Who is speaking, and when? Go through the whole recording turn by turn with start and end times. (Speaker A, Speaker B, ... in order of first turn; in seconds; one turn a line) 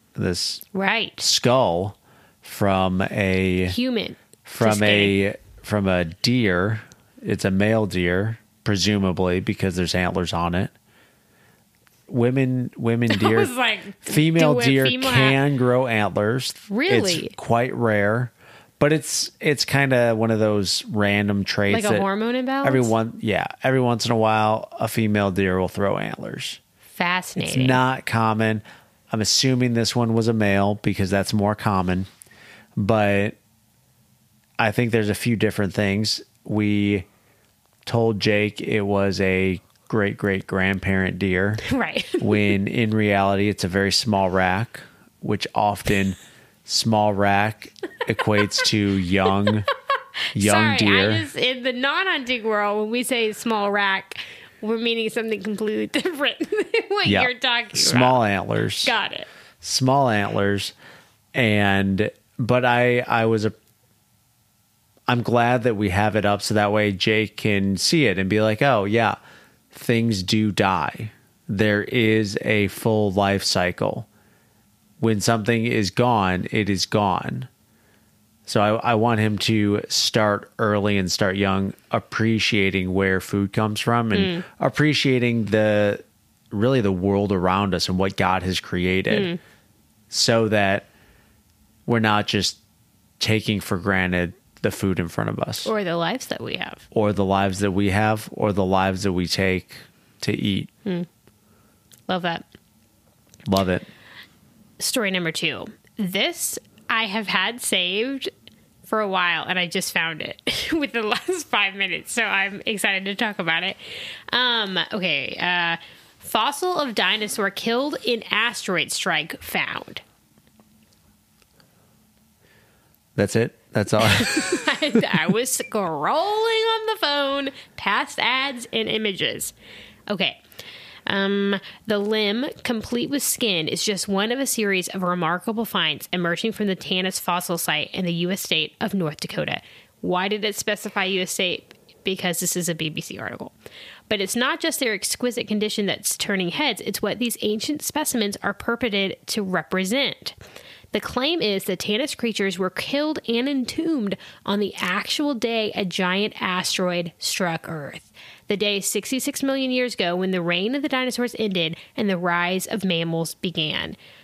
Speaker A: 0.2-0.6
Speaker B: 0.7-1.3
Speaker A: 1.2-3.8
Speaker B: 3.7-5.2
Speaker A: 4.5-10.7
Speaker A: 12.1-13.5
Speaker B: 13.1-15.4
Speaker A: 14.0-22.1
Speaker B: 16.7-17.3
Speaker B: 21.7-22.9
Speaker A: 22.6-26.6
Speaker B: 27.0-27.8
Speaker A: 27.4-32.1
Speaker A: 32.8-33.4
Speaker A: 34.6-37.1
Speaker A: 37.9-41.6
Speaker B: 41.6-42.4
Speaker A: 42.2-49.7
Speaker B: 50.3-58.2
Speaker A: 50.4-51.3
Speaker A: 57.0-58.9
Speaker B: 58.8-59.3
Speaker A: 59.6-60.7
Speaker A: 61.4-63.5
Speaker A: 65.1-69.2
Speaker A: 69.7-74.1
Speaker A: 75.0-77.5
Speaker A: 78.5-89.3
Speaker B: 84.1-84.5
Speaker B: 89.1-89.4
Speaker A: 90.1-90.9
Speaker A: 91.9-92.6
Speaker A: 93.2-95.7
Speaker B: 95.7-96.8
Speaker A: 96.9-100.7
Speaker B: 102.1-102.5
Speaker A: 103.5-103.9
Speaker B: 104.8-108.3
Speaker B: 108.9-113.8
Speaker B: 114.3-120.0
Speaker A: 123.2-124.6
Speaker B: 124.0-129.5
Speaker B: 130.1-130.4
Speaker B: 131.1-143.5
Speaker B: 144.1-150.4
Speaker B: 150.9-164.0